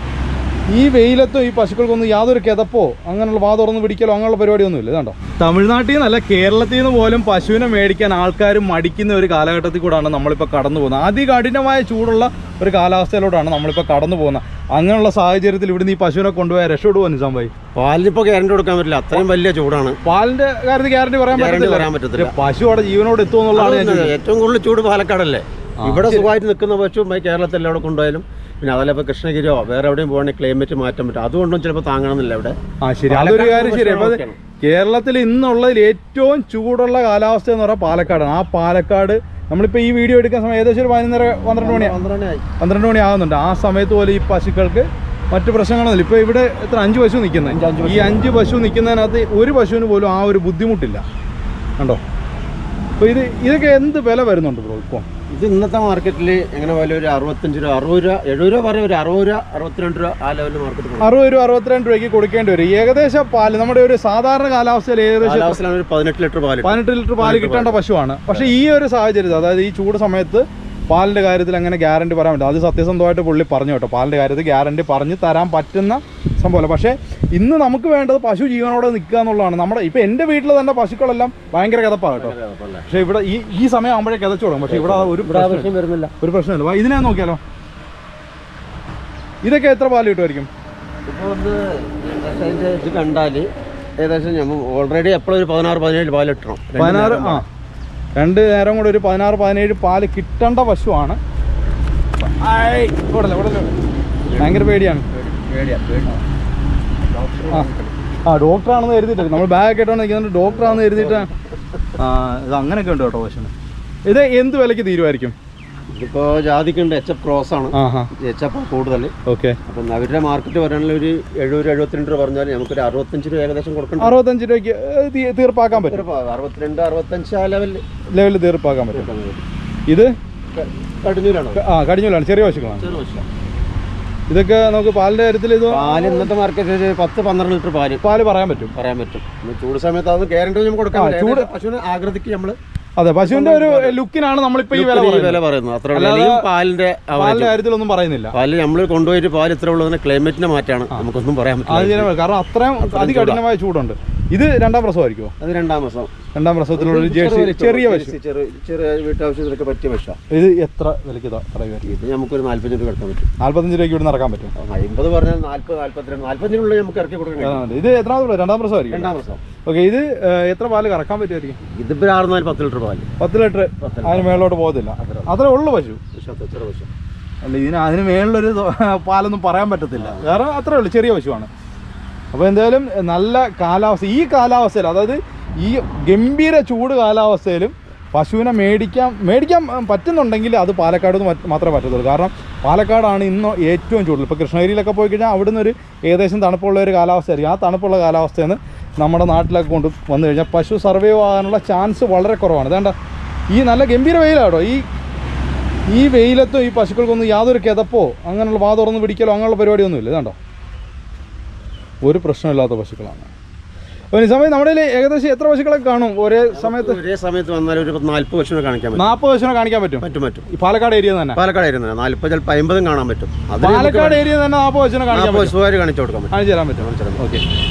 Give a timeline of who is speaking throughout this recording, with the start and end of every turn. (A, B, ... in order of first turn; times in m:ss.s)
0:00.7-0:17.5 A
0:17.8-0:20.0 B
0:20.0-0:24.1 A
0:21.3-0:22.3 B
0:23.5-0:32.6 B
0:25.8-0:26.3 A
0:32.8-0:42.0 A
0:33.1-0:34.4 B
0:41.6-0:42.4 B
0:42.6-0:51.0 A
0:47.5-0:48.3 B
0:53.0-0:55.1 A
0:55.3-1:01.1 B
1:01.0-1:05.6 A
1:05.2-1:07.8 B
1:06.6-1:22.4 A
1:22.2-1:22.9 B
1:22.9-1:25.7 A
1:24.7-1:26.1 B
1:26.2-1:27.4 A
1:29.4-1:30.5 A
1:31.1-1:37.4 B
1:36.8-1:37.5 A
1:38.2-1:41.2 A
1:42.2-1:43.8 A
1:44.3-1:46.2 B
1:44.4-1:45.1 A
1:47.1-1:48.0 B
1:48.3-1:51.3 A
1:50.4-1:51.4 B
1:52.0-1:53.5 A
1:54.1-1:55.4 A
1:55.9-1:59.1 B
1:57.7-1:58.1 A
1:59.3-1:59.6 A
1:59.7-2:04.2 B
2:04.0-2:06.0 A
2:05.7-2:07.8 B
2:08.1-2:09.1 A
2:08.9-2:09.4 B
2:09.9-2:10.1 A
2:10.5-2:11.6 B
2:11.6-2:12.9 A
2:12.5-2:13.3 B
2:14.3-2:16.3 A
2:15.7-2:18.0 B
2:18.0-2:18.7 A
2:18.7-2:22.6 B
2:21.0-2:21.5 A
2:23.0-2:25.4 A
2:23.2-2:24.0 B
2:24.7-2:27.6 B
2:25.9-2:26.4 A
2:27.1-2:28.3 A
2:28.3-2:32.1 B
2:31.7-2:35.3 A
2:32.8-2:33.4 B
2:35.4-2:36.1 B
2:36.4-2:38.2 A
2:36.7-2:40.2 B
2:40.3-2:41.9 A
2:41.8-2:43.3 B
2:43.4-2:44.5 A
2:44.6-2:47.6 B
2:47.4-2:49.1 A
2:48.9-2:49.4 B
2:49.6-2:51.6 A
2:51.7-2:53.1 B
2:53.2-2:56.0 A
2:53.8-2:55.3 B
2:56.1-2:56.9 B
2:57.4-3:01.5 A
3:00.0-3:00.3 B
3:02.3-3:23.0 A
3:23.5-3:24.9 A
3:25.9-3:30.4 A
3:32.0-3:33.3 A
3:34.1-3:37.0 A
3:36.5-3:39.2 B
3:39.0-3:41.4 A
3:40.0-3:40.5 B
3:41.4-3:44.3 B
3:43.6-3:45.5 A
3:45.1-3:47.3 B
3:46.3-3:47.4 A